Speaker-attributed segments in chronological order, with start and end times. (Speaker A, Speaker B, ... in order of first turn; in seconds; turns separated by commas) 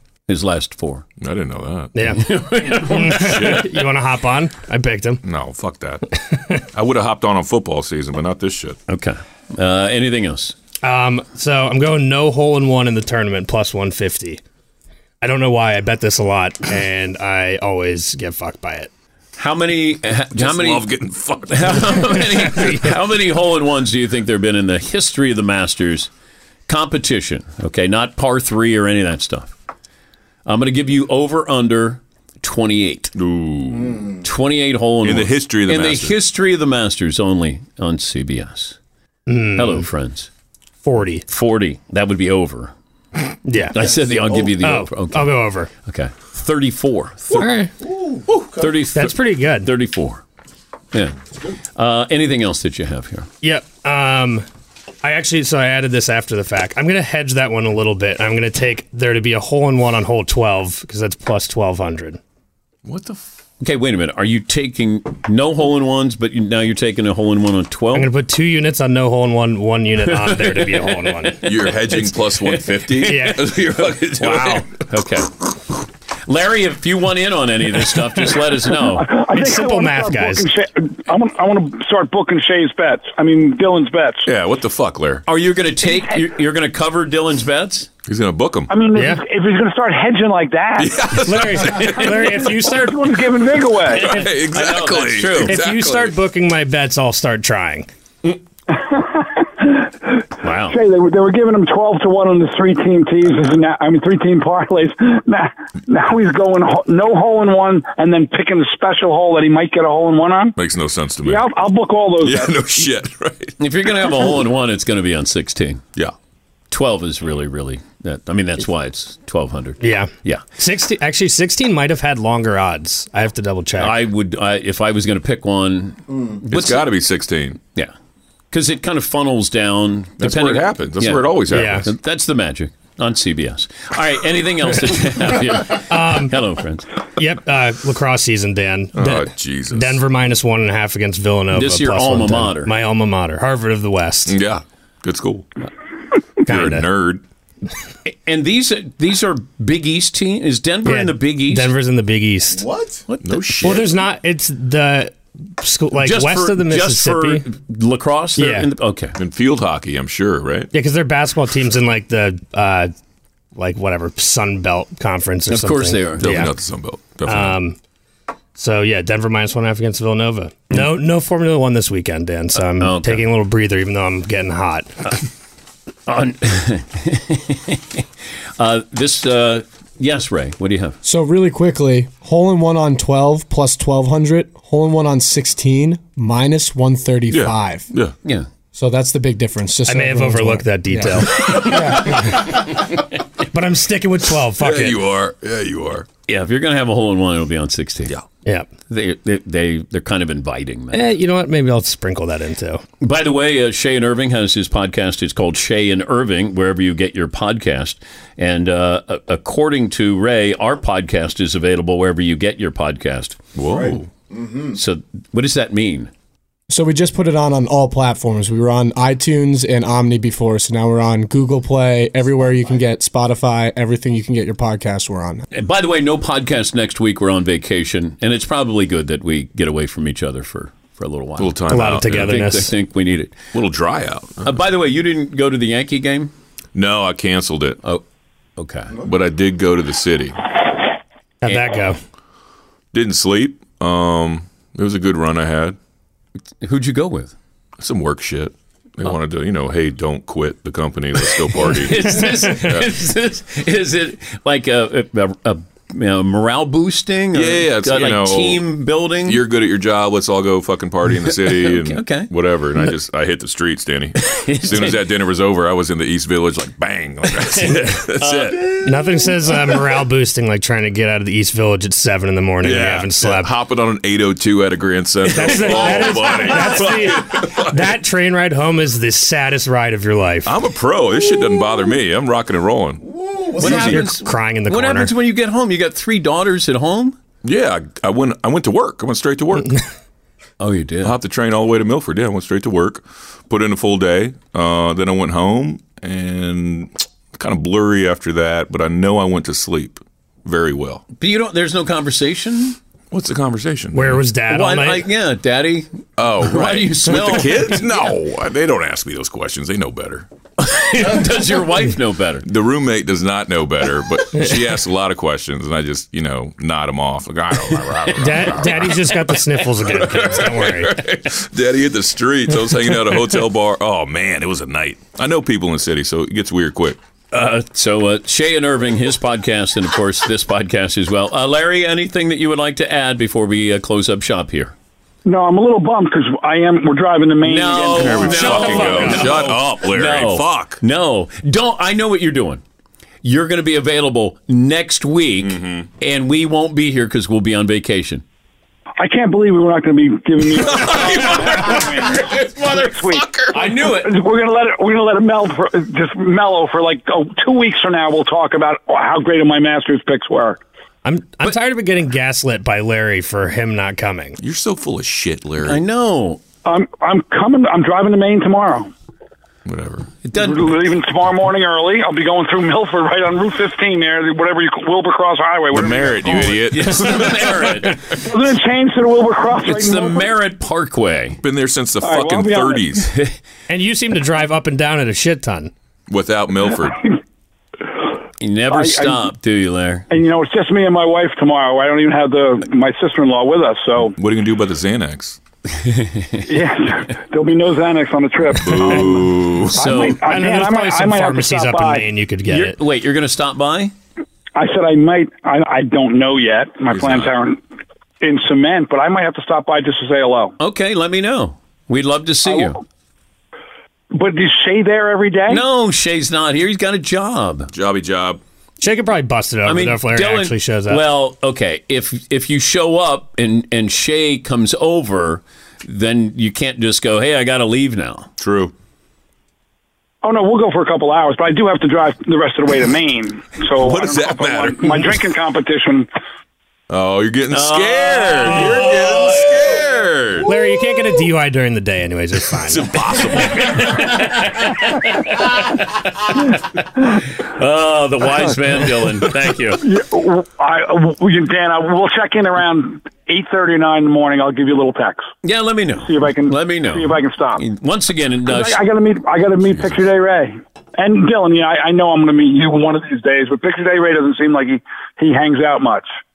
Speaker A: 0.3-1.1, Speaker B: 1.2-1.9, Speaker C: 1.9-5.2, Speaker A: 2.1-3.6, Speaker B: 3.0-3.7, Speaker B: 5.2-6.0, Speaker C: 6.2-6.6, Speaker B: 6.7-8.8, Speaker A: 8.9-10.5, Speaker C: 10.8-14.4, Speaker C: 15.2-18.9, Speaker A: 19.4-20.9, Speaker B: 20.3-22.6, Speaker A: 21.5-26.1, Speaker C: 22.2-22.8, Speaker A: 26.7-29.5, Speaker A: 30.4-33.1, Speaker B: 33.1-34.1, Speaker A: 34.2-38.8, Speaker B: 35.0-36.1, Speaker C: 39.3-39.9, Speaker A: 39.5-40.3, Speaker C: 40.8-41.2, Speaker A: 41.3-42.7, Speaker C: 43.4-45.7, Speaker A: 43.7-47.4, Speaker C: 47.3-47.7, Speaker A: 48.5-50.2, Speaker C: 48.9-49.7, Speaker A: 51.7-53.3, Speaker C: 53.4-54.5, Speaker C: 55.0-62.2, Speaker B: 62.8-63.2, Speaker A: 63.6-68.1, Speaker C: 67.9-71.4, Speaker A: 70.1-75.4, Speaker B: 71.4-74.7, Speaker C: 73.0-73.5, Speaker C: 74.2-74.7, Speaker A: 76.2-79.1, Speaker D: 78.9-84.3, Speaker C: 79.3-80.5, Speaker B: 84.2-85.2, Speaker A: 85.3-87.9, Speaker B: 88.0-88.7, Speaker D: 88.7-91.0, Speaker C: 88.9-89.2, Speaker B: 90.8-92.4, Speaker C: 91.2-93.1, Speaker D: 92.7-94.1, Speaker B: 93.8-96.2, Speaker A: 94.1-95.6, Speaker C: 95.4-97.9, Speaker D: 98.7-99.9, Speaker A: 100.4-100.8, Speaker D: 100.7-110.5, Speaker B: 110.5-111.5, Speaker D: 111.2-112.5, Speaker B: 112.2-113.5, Speaker A: 113.6-115.8, Speaker A: 116.7-120.4, Speaker C: 119.8-124.0, Speaker A: 123.8-126.9, Speaker B: 126.5-127.6, Speaker A: 128.5-136.9, Speaker B: 130.2-131.9, Speaker C: 131.5-131.9, Speaker C: 135.9-136.3, Speaker C: 137.2-144.3, Speaker B: 138.9-140.0, Speaker A: 141.5-142.7, Speaker B: 144.3-145.4, Speaker C: 146.4-146.9, Speaker B: 146.5-147.2, Speaker A: 148.1-151.7, Speaker C: 150.8-152.7, Speaker A: 153.1-153.5, Speaker B: 153.2-153.9, Speaker C: 153.6-157.4, Speaker A: 156.0-159.2, Speaker C: 158.4-158.7, Speaker B: 159.2-160.7, Speaker C: 160.7-162.9, Speaker C: 163.5-166.5, Speaker A: 165.5-166.3, Speaker B: 166.2-167.6, Speaker C: 167.2-167.8, Speaker C: 168.6-175.0, Speaker A: 172.6-173.2, Speaker A: 176.1-178.1, Speaker A: 178.6-181.0, Speaker E: 181.0-187.9, Speaker B: 187.3-188.1, Speaker E: 188.7-191.3, Speaker C: 189.9-192.8, Speaker C: 193.5-195.0, Speaker B: 194.6-196.1, Speaker A: 196.3-198.1, Speaker A: 198.9-201.0, Speaker C: 200.9-202.8, Speaker A: 203.0-213.4, Speaker B: 213.5-214.1, Speaker A: 214.7-216.1, Speaker E: 216.7-225.4, Speaker A: 225.5-233.4, Speaker B: 231.4-232.4, Speaker C: 231.7-232.7, Speaker B: 233.5-234.6, Speaker A: 234.4-236.3, Speaker B: 236.7-237.8, Speaker A: 238.6-239.0, Speaker B: 239.0-240.4, Speaker C: 241.4-242.0, Speaker B: 242.9-245.8, Speaker A: 246.6-247.3, Speaker B: 247.8-252.9, Speaker A: 251.5-259.4, Speaker B: 257.3-258.7, Speaker B: 259.2-268.9, Speaker A: 261.2-262.3, Speaker A: 264.2-265.1, Speaker A: 267.3-268.8, Speaker C: 268.8-273.5, Speaker B: 272.6-277.9, Speaker C: 275.3-280.5, Speaker B: 280.4-283.0, Speaker A: 283.6-287.2, Speaker C: 283.6-285.1, Speaker B: 283.7-284.0, Speaker B: 287.4-289.8, Speaker A: 290.6-291.1, Speaker B: 291.0-301.0, Speaker A: 301.2-302.8, Speaker B: 303.1-304.2, Speaker C: 303.9-305.0, Speaker A: 304.5-308.1, Speaker B: 306.2-310.3, Speaker A: 310.6-312.4, Speaker B: 312.4-327.0, Speaker A: 317.7-318.0, Speaker C: 318.2-321.0, Speaker A: 327.3-334.7, Speaker D: 335.2-338.5, Speaker A: 337.4-342.6, Speaker B: 337.8-340.8, Speaker C: 338.3-339.4, Speaker A: 343.2-348.2, Speaker B: 345.4-345.9, Speaker D: 349.0-360.6, Speaker B: 350.6-353.6, Speaker A: 351.2-351.7, Speaker A: 353.5-354.1, Speaker C: 361.0-364.4, Speaker B: 364.4-365.8, Speaker A: 365.6-366.4, Speaker D: 366.6-368.9, Speaker B: 369.6-370.1, Speaker A: 370.2-370.7, Speaker D: 370.4-376.6, Speaker B: 375.7-378.1, Speaker A: 376.5-378.0, Speaker D: 378.2-380.3, Speaker A: 379.6-381.4, Speaker B: 381.4-383.1, Speaker D: 382.0-382.9, Speaker C: 383.7-385.7, Speaker B: 386.1-387.0, Speaker A: 388.4-390.1, Speaker D: 388.7-389.2, Speaker D: 390.1-394.1, Speaker B: 394.2-395.4, Speaker A: 395.8-396.4, Speaker D: 396.4-399.2, Speaker B: 398.5-399.9, Speaker A: 399.7-400.2, Speaker D: 399.8-402.1, Speaker C: 400.2-402.8, Speaker A: 402.4-403.9, Speaker D: 404.6-407.6, Speaker B: 406.9-407.3, Speaker D: 408.2-410.5, Speaker A: 410.6-412.8, Speaker D: 412.4-412.8, Speaker D: 414.1-415.6, Speaker A: 415.5-417.7, Speaker B: 417.7-418.4, Speaker C: 418.8-421.0, Speaker A: 419.6-428.3, Speaker B: 428.4-428.7, Speaker D: 430.2-436.1, Speaker B: 433.8-435.1, Speaker B: 436.9-440.5, Speaker A: 437.5-439.4, Speaker C: 438.5-439.4, Speaker C: 440.4-442.9, Speaker B: 442.6-444.2, Speaker A: 443.6-445.2, Speaker A: 447.4-449.8, Speaker D: 449.8-455.3, Speaker A: 455.4-458.8, Speaker D: 455.9-457.6, Speaker D: 458.4-466.1, Speaker B: 459.7-460.0